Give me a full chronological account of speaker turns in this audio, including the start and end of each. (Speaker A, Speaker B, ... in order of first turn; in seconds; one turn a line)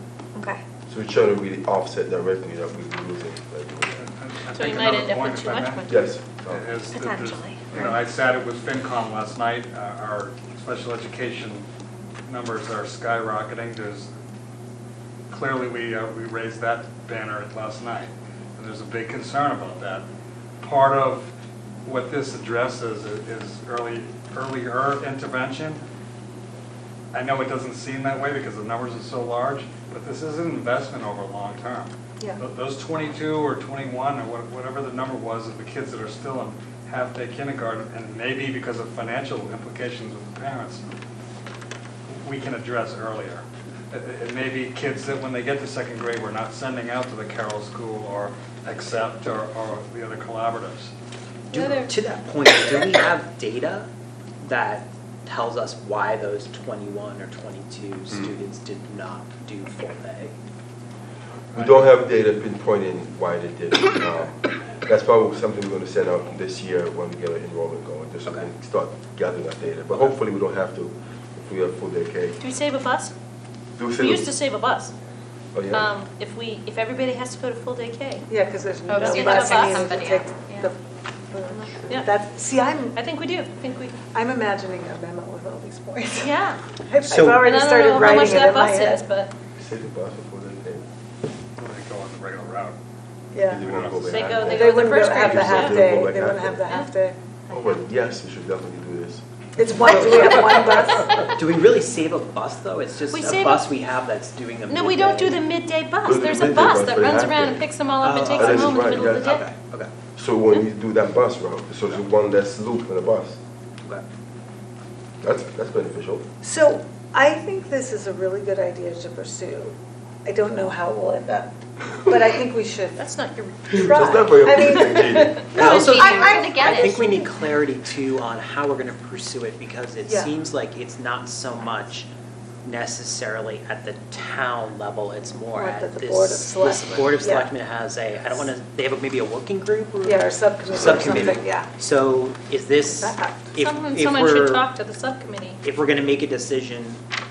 Speaker A: 0.3-0.6
Speaker B: 0.9-4.0
Speaker C: 4.0-11.6
Speaker D: 4.5-6.1
Speaker B: 5.8-6.6
Speaker A: 6.9-7.9
Speaker C: 12.3-14.1
Speaker C: 15.3-20.0
Speaker C: 20.6-21.3
Speaker C: 21.8-25.8
Speaker C: 27.1-40.8
Speaker C: 42.1-50.9
Speaker E: 51.5-53.9
Speaker D: 51.5-51.9
Speaker E: 54.4-60.4
Speaker C: 61.5-61.8
Speaker B: 61.5-72.4
Speaker D: 72.4-73.1
Speaker B: 73.8-74.3
Speaker D: 74.0-74.9
Speaker B: 75.5-75.9
Speaker D: 75.7-78.3
Speaker F: 78.3-80.8
Speaker A: 78.9-79.9
Speaker D: 78.9-80.7
Speaker F: 81.3-83.0
Speaker A: 81.5-81.9
Speaker D: 82.9-84.0
Speaker F: 84.0-89.1
Speaker D: 86.2-86.6
Speaker E: 87.0-88.3
Speaker D: 87.4-89.3
Speaker B: 89.6-90.8
Speaker C: 91.6-92.8
Speaker F: 93.3-93.7
Speaker B: 93.5-96.6
Speaker C: 93.5-94.6
Speaker D: 94.0-95.9
Speaker F: 94.5-97.2
Speaker B: 97.5-99.2
Speaker F: 99.6-101.1
Speaker E: 99.9-100.6
Speaker B: 100.0-100.4
Speaker E: 101.3-105.5
Speaker D: 103.1-103.6
Speaker D: 104.7-109.5
Speaker B: 106.0-107.7
Speaker E: 108.0-109.9
Speaker B: 108.3-109.4
Speaker B: 110.2-113.4
Speaker B: 115.2-116.2
Speaker F: 116.4-123.0
Speaker D: 123.0-124.0
Speaker B: 123.7-125.5
Speaker F: 123.8-127.4
Speaker D: 125.0-125.9
Speaker E: 125.5-132.1
Speaker A: 125.6-127.1
Speaker F: 130.1-130.3
Speaker E: 132.6-144.7
Speaker F: 135.5-137.5
Speaker F: 140.0-141.7
Speaker F: 142.9-143.6
Speaker D: 143.6-145.6
Speaker E: 145.6-147.0